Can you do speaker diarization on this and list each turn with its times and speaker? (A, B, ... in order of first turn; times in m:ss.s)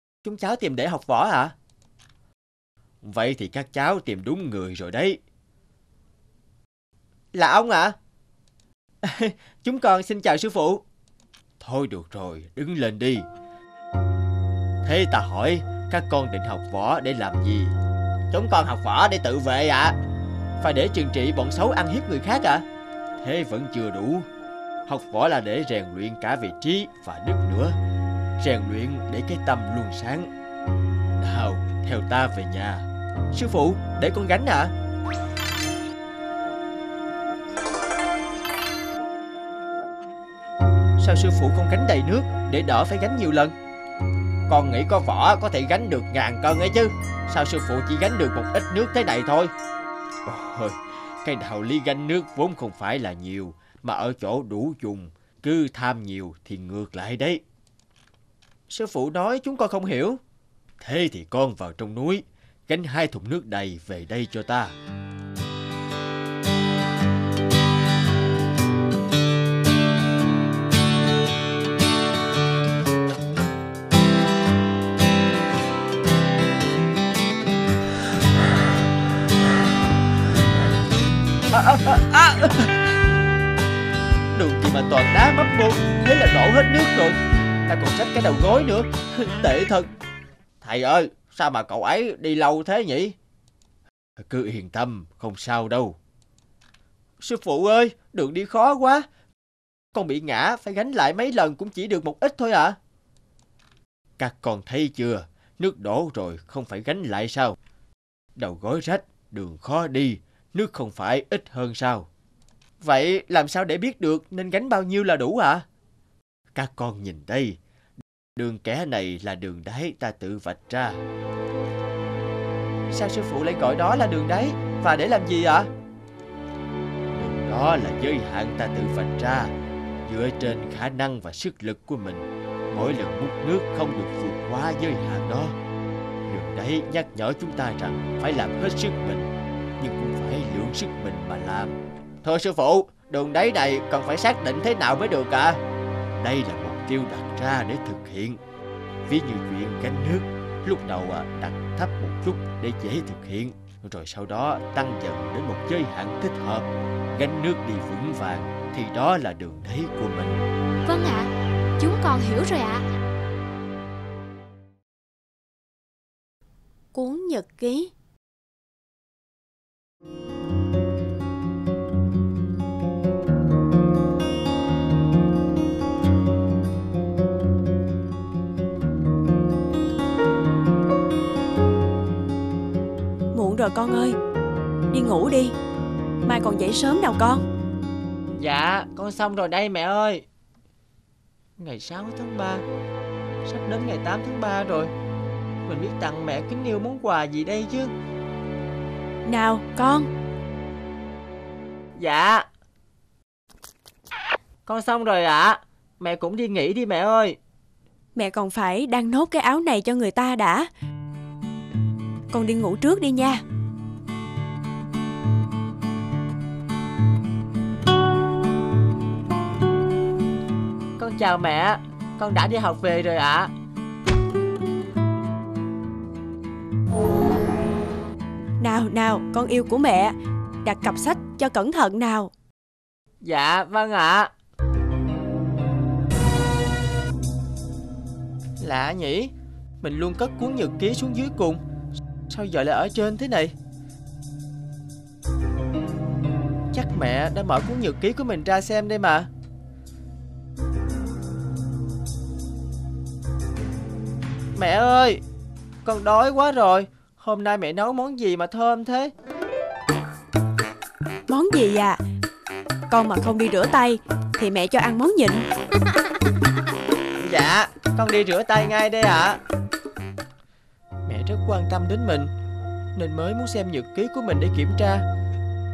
0:00.2-0:01.5 A
0:03.0-0:05.2 A
0:07.3-0:07.9 A
0:09.0-0:10.8 A
0:11.6-0:13.3 A
0:14.8-0:17.7 A
0:18.3-0:19.9 A
0:20.6-0:22.6 A
0:23.2-0:24.3 A
0:24.9-0:27.7 A
0:28.4-0:30.3 A
0:31.2-0:34.7 A
0:41.0-0:43.5 A
0:44.5-0:49.5 A
0:50.2-0:57.4 A
0:58.7-1:00.2 A
1:00.8-1:04.7 A
1:21.5-1:22.8 A
1:24.3-1:27.2 A
1:27.7-1:29.9 A
1:30.6-1:33.2 A
1:34.2-1:36.0 A
1:37.2-1:39.0 A
1:39.9-1:42.8 A
1:44.2-1:47.6 A
1:48.4-1:52.1 A
1:52.8-1:55.6 A
1:56.5-1:57.6 A
1:58.4-2:01.0 A
2:02.9-2:05.7 A
2:07.1-2:09.5 A
2:10.0-2:15.6 A
2:16.3-2:25.6 A
2:26.1-2:28.4 A
2:29.1-2:40.4 A
2:40.8-2:42.8 B
2:46.9-2:47.9 C
3:03.3-3:04.2 C
3:04.9-3:05.5 C
3:06.2-3:07.4 C
3:08.4-3:10.2 A
3:11.6-3:12.6 A
3:13.4-3:14.9 A
3:15.6-3:17.9 A
3:19.2-3:20.1 C
3:22.0-3:22.4 A
3:24.6-3:27.4 A
3:28.1-3:30.7 C
3:32.3-3:33.4 C
3:41.0-3:43.5 A
3:48.6-3:52.3 C
3:53.2-3:54.3 A
3:58.6-4:01.6 A
4:02.3-4:03.5 A
4:06.7-4:09.3 A
4:14.6-4:15.2 A
4:15.8-4:19.1 A
4:21.3-4:22.0 C
4:22.9-4:25.5 C
4:27.1-4:29.4 A
4:31.1-4:32.3 A
4:33.0-4:35.0 A